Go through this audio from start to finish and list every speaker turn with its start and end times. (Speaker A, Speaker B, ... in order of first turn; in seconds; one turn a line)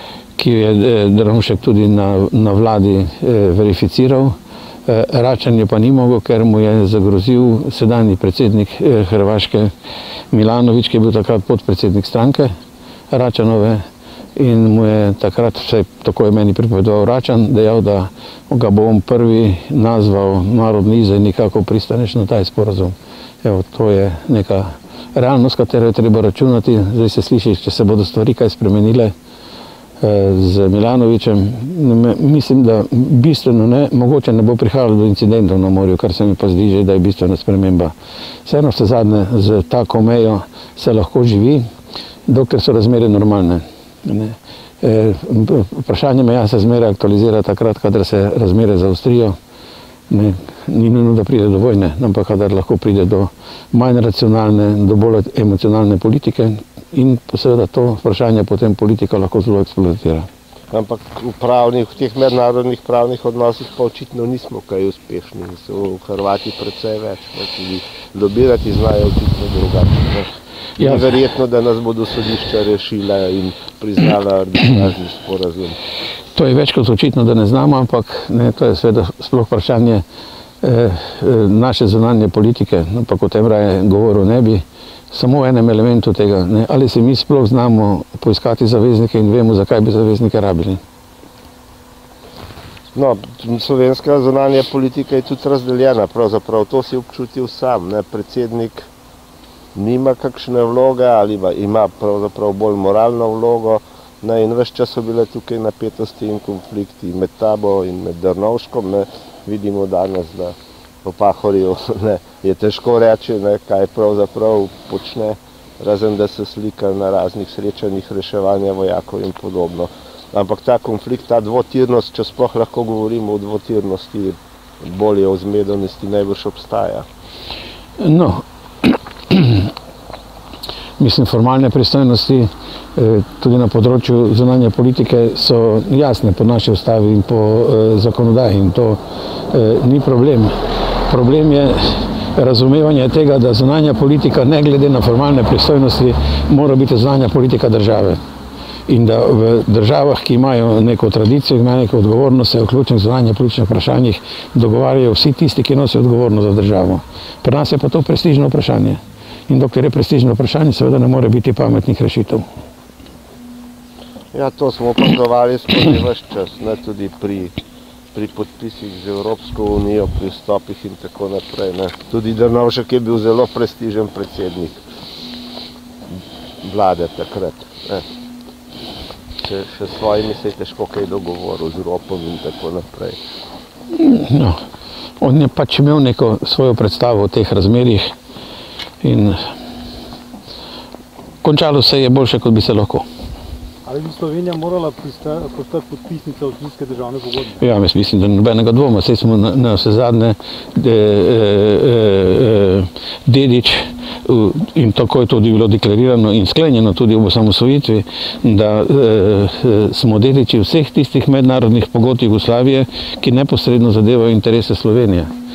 Speaker A: 0.4-9.7
Speaker A: 10.3-12.5
Speaker A: 13.1-13.8
Speaker A: 14.4-29.1
Speaker A: 30.0-37.9
Speaker A: 38.5-41.7
Speaker A: 42.3-49.4
Speaker A: 50.1-60.3
Speaker B: 60.7-75.8
Speaker A: 70.8-71.1
Speaker A: 76.3-80.0
Speaker A: 80.6-90.8
Speaker B: 93.0-98.9
Speaker B: 99.8-127.1
Speaker A: 128.0-129.7
Speaker A: 131.0-148.2
Speaker A: 148.9-162.5
Speaker B: 164.3-167.6
Speaker B: 168.1-174.8
Speaker B: 176.6-178.1
Speaker B: 179.4-183.2
Speaker A: 183.9-184.6
Speaker A: 185.2-188.1
Speaker A: 189.0-189.5
Speaker A: 191.4-193.1
Speaker C: 193.9-197.6
Speaker A: 197.6-215.3